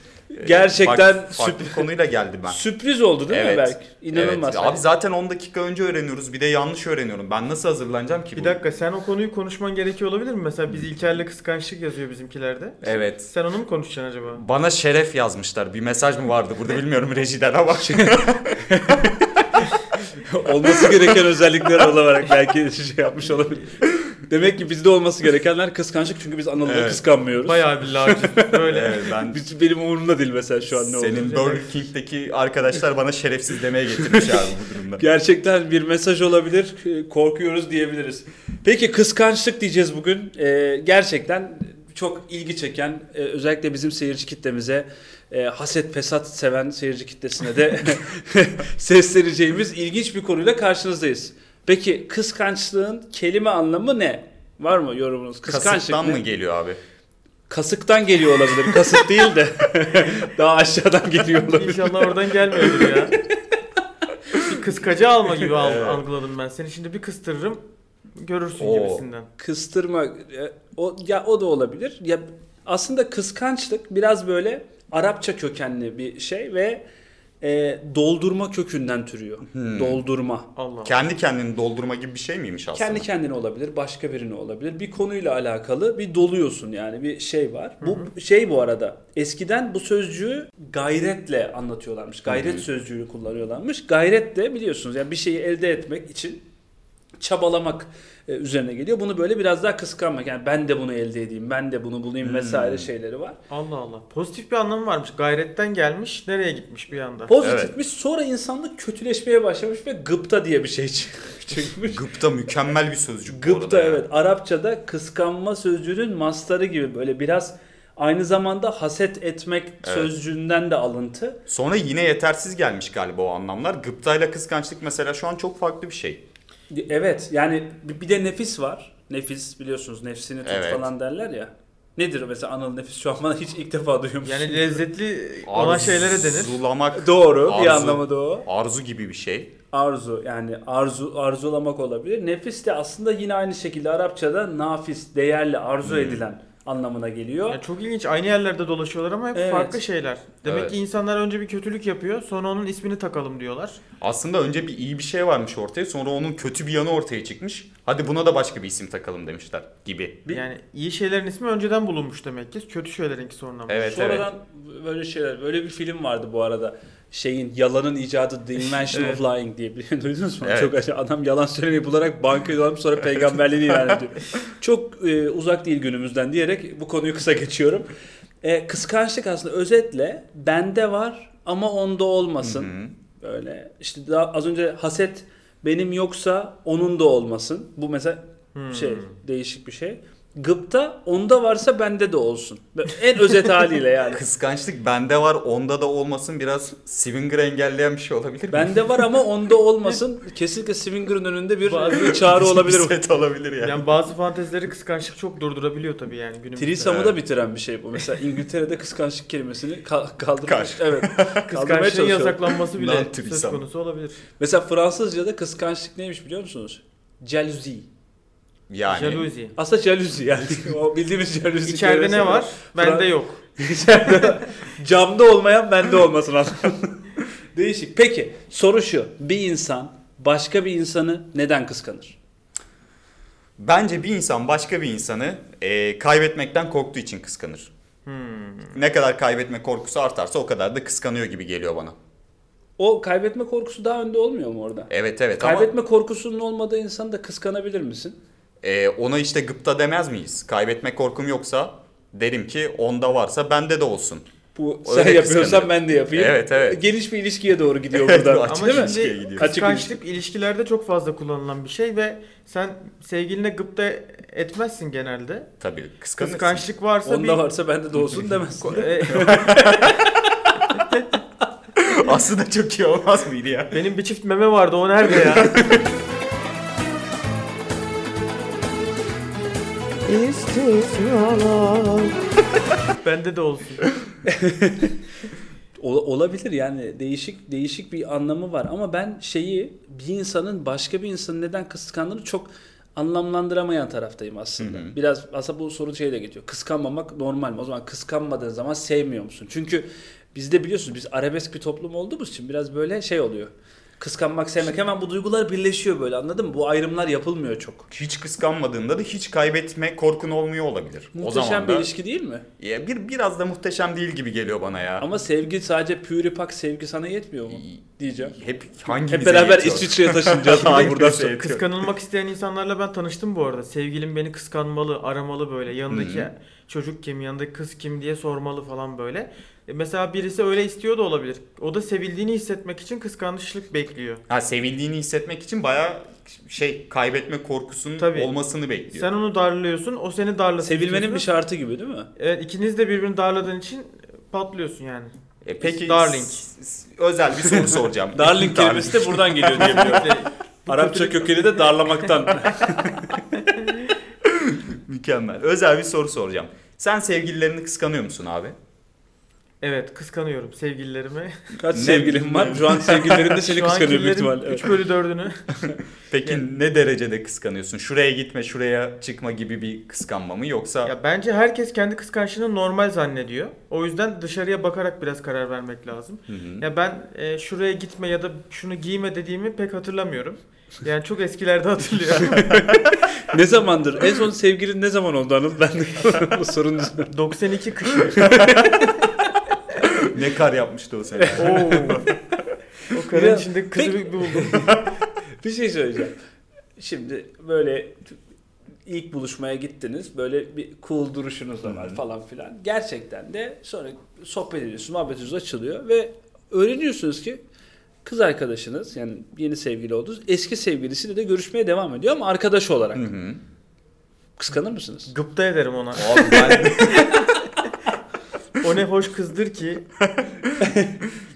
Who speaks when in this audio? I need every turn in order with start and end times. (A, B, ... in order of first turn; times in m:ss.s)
0:00.3-0:01.9 A
0:00.4-0:02.6 B
0:02.5-0:04.8 A
0:03.3-0:08.6 B
0:08.3-0:14.4 C
0:12.8-0:13.3 B
0:14.3-0:18.9 B
0:17.9-0:19.1 A
0:20.2-0:23.7 A
0:20.7-0:21.0 B
0:24.3-0:28.6 A
0:26.6-0:27.0 B
0:27.4-0:29.0 C
0:28.6-0:29.4 B
0:29.2-0:31.6 A
0:30.7-0:35.0 B
0:31.4-0:31.6 C
0:34.0-0:34.4 A
0:35.0-0:56.2 A
0:55.5-0:56.8 B
0:57.5-1:03.2 A
1:01.5-1:03.1 C
1:04.4-1:07.6 C
1:05.6-1:06.0 B
1:08.2-1:09.3 C
1:08.6-1:09.0 B
1:09.4-1:16.8 A
1:17.4-1:20.5 A
1:19.5-1:20.0 B
1:20.6-1:20.9 C
1:20.8-1:23.0 B
1:22.7-1:36.4 A
1:27.8-1:28.1 C
1:32.3-1:32.6 B
1:37.2-1:43.4 A
1:42.2-1:42.9 B
1:43.5-1:47.3 C
1:47.3-1:52.0 A
1:47.4-1:47.7 B
1:51.8-1:54.0 B
1:53.3-2:01.4 A
1:59.8-2:00.1 B
2:01.5-2:06.2 B
2:06.7-2:14.8 A
2:10.4-2:10.9 B
2:14.2-2:16.6 C
2:15.4-2:19.5 B
2:16.9-2:18.4 A
2:19.7-2:27.6 A
2:25.8-2:26.2 B
2:27.5-2:33.8 C
2:29.3-2:29.8 A
2:30.4-2:30.8 B
2:34.0-2:40.4 B
2:40.2-2:43.9 C
2:43.7-2:44.3 B
2:43.8-2:57.9 A
2:48.9-2:49.2 C
2:50.4-2:50.7 B
2:58.4-3:14.2 A
3:02.4-3:02.9 B
3:08.5-3:09.1 C
3:14.1-3:19.1 B
3:18.5-3:22.9 A
3:21.7-3:22.1 C
3:21.9-3:23.9 B
3:23.6-3:27.2 C
3:26.6-3:32.5 A
3:30.4-3:31.4 B
3:31.5-3:34.2 C
3:32.7-3:33.6 B
3:34.4-3:37.9 A
3:38.7-3:39.3 B
3:38.9-3:39.5 C
3:39.6-3:52.2 A
3:41.6-3:43.4 C
3:53.6-3:57.7 B
3:58.0-3:58.8 C
3:58.7-4:02.0 B
4:02.8-4:08.2 A
4:04.9-4:05.7 B
4:08.6-4:14.2 B
4:14.5-4:20.0 A
4:14.8-4:16.8 B
4:17.9-4:19.5 B
4:18.5-4:25.5 C
4:25.6-4:26.7 B
4:26.2-4:27.4 C
4:27.0-4:30.0 A
4:28.6-4:29.4 C
4:29.1-4:30.1 B
4:31.8-4:33.8 B
4:33.7-4:35.6 C
4:35.4-4:35.7 B
4:40.1-4:42.1 C
4:43.0-4:43.8 C
4:44.2-4:45.0 A
4:45.8-5:07.9 A
4:54.6-4:54.9 B
5:07.9-5:11.9 B
5:11.1-5:12.4 A
5:12.6-5:15.0 B
5:15.0-5:18.3 A
5:17.5-5:21.8 B
5:19.1-5:21.4 A
5:21.4-5:34.2 C
5:25.9-5:26.3 B
5:34.3-5:39.1 B
5:38.0-5:38.3 C
5:38.9-5:41.2 C
5:40.6-5:42.1 A
5:42.2-5:46.4 C
5:45.4-5:50.2 B
5:48.1-5:53.2 A
5:49.6-5:51.6 C
5:54.2-5:58.6 B
5:59.6-6:01.5 C
6:01.6-6:04.7 A
6:01.7-6:03.1 B
6:03.3-6:05.6 C
6:06.1-6:10.9 B
6:10.8-6:22.4 C
6:16.3-6:16.6 B
6:22.3-6:27.1 A
6:27.1-6:28.2 C
6:28.0-6:29.0 A
6:30.0-6:32.0 B
6:31.2-6:32.0 A
6:31.4-6:32.1 C
6:32.9-6:34.6 C
6:33.0-6:34.8 A
6:35.4-6:36.2 A
6:36.8-6:38.1 A
6:38.8-6:47.4 A
6:41.7-6:42.0 B
6:48.0-6:53.1 A
6:52.9-6:53.4 B
6:54.4-6:55.1 A
6:55.1-6:56.4 C
6:56.0-6:57.1 B
6:56.2-6:57.3 A
6:58.6-6:59.8 C
7:00.0-7:00.6 B
7:00.6-7:00.9 A